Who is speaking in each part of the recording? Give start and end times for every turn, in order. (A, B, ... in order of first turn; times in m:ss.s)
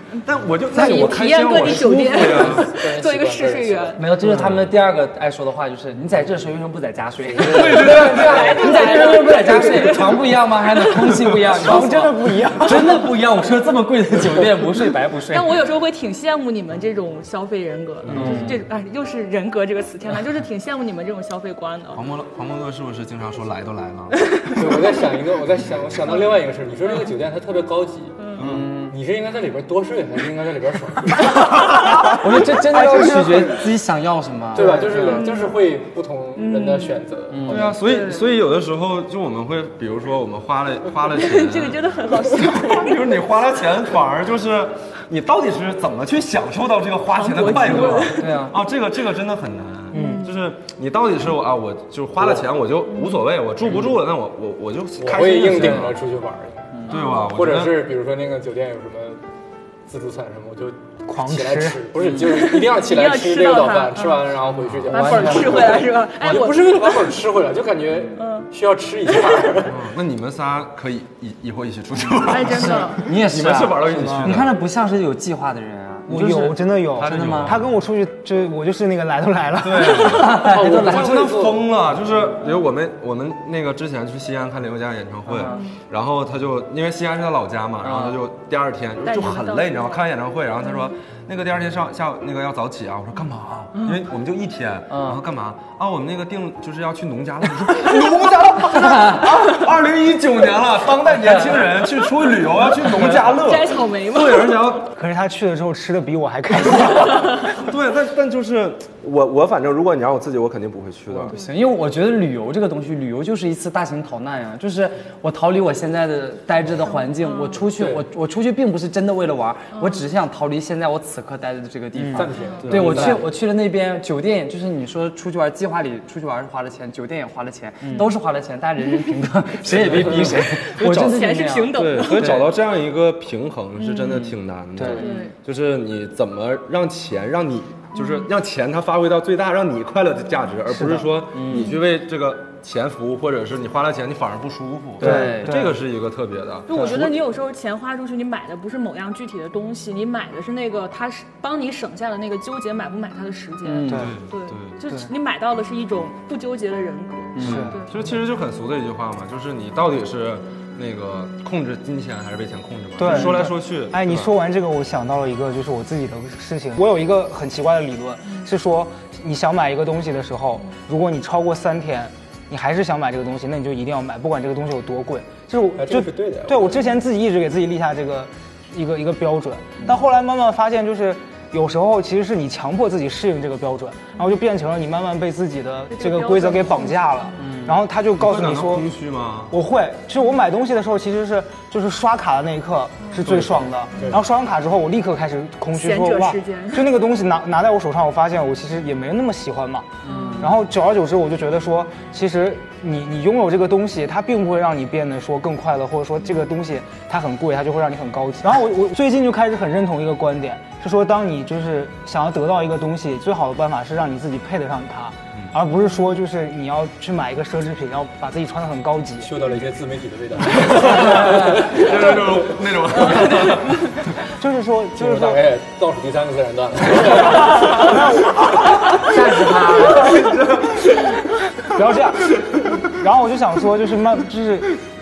0:00.2-0:02.7 A
0:00.7-0:04.1 B
0:02.5-0:04.0 C
0:04.0-0:15.5 D
0:04.2-0:04.6 A
0:07.3-0:07.9 C
0:07.4-0:08.6 A
0:07.6-0:11.8 B
0:11.5-0:12.9 E
0:15.3-0:22.0 B
0:18.0-0:18.5 A
0:18.1-0:18.6 D
0:18.2-0:18.4 E
0:21.9-0:24.2 A
0:24.6-0:28.2 C
0:28.2-0:28.4 B
0:28.4-0:28.7 A
0:28.4-0:28.9 D
0:28.9-0:31.3 C
0:32.1-0:35.2 D
0:32.7-0:33.3 E
0:34.5-0:37.7 C
0:34.9-0:35.5 B
0:36.4-0:37.0 B
0:37.3-0:37.7 D
0:37.5-0:56.0 A
0:37.8-0:38.2 B
0:41.0-0:43.1 B
0:47.1-0:48.4 B
0:47.5-0:48.6 D
0:49.9-0:50.3 B
0:49.9-0:50.2 E
0:52.2-0:52.5 C
0:52.9-0:53.2 B
0:55.0-0:59.2 C
0:56.9-0:57.9 A
0:56.9-0:57.3 B
0:59.8-1:09.9 C
1:01.1-1:01.8 E
1:02.1-1:04.2 B
1:04.9-1:07.1 B
1:04.9-1:05.8 D
1:08.1-1:08.5 B
1:09.6-1:14.5 A
1:12.1-1:13.1 B
1:12.4-1:17.6 D
1:13.8-1:14.4 E
1:16.1-1:20.3 E
1:16.9-1:17.7 A
1:19.6-1:44.9 A
1:19.8-1:21.2 D
1:20.4-1:21.7 C
1:25.2-1:25.6 D
1:25.4-1:25.8 B
1:27.8-1:28.2 D
1:29.0-1:30.0 B
1:33.8-1:34.0 B
1:34.9-1:35.2 D
1:38.8-1:39.2 D
1:41.2-1:41.5 D
1:42.9-1:43.2 D
1:43.3-1:44.8 B
1:44.9-1:47.6 E
1:47.5-1:51.3 A
1:51.1-2:12.5 D
1:56.8-1:57.6 B
1:57.7-1:58.0 C
1:59.7-2:00.0 B
2:02.0-2:02.3 E
2:02.1-2:03.3 C
2:02.4-2:02.7 B
2:02.6-2:03.2 A
2:09.6-2:27.2 A
2:10.4-2:12.4 B
2:13.8-2:14.2 B
2:14.8-2:15.1 D
2:14.8-2:15.3 B
2:20.7-2:21.1 E
2:21.3-2:21.7 D
2:21.5-2:21.8 B
2:25.0-2:25.6 D
2:25.0-2:25.8 E
2:26.7-2:38.0 B
2:33.6-2:34.1 D
2:33.9-2:34.8 A
2:37.4-2:37.8 D
2:37.4-2:37.8 E
2:37.4-2:44.3 A
2:43.0-3:08.9 E
2:55.8-2:56.8 C
3:05.9-3:07.5 B
3:07.4-3:07.7 D
3:08.2-3:09.5 A
3:09.5-3:39.3 E
3:13.2-3:13.7 A
3:15.7-3:16.9 B
3:20.0-3:20.6 D
3:20.1-3:20.5 B
3:39.2-3:41.9 C
3:40.5-3:44.0 A
3:43.0-3:44.0 B
3:44.2-3:45.4 E
3:45.0-3:48.0 C
3:47.7-3:48.3 E
3:49.0-3:50.2 D
3:50.1-3:50.8 A
3:51.6-3:54.8 E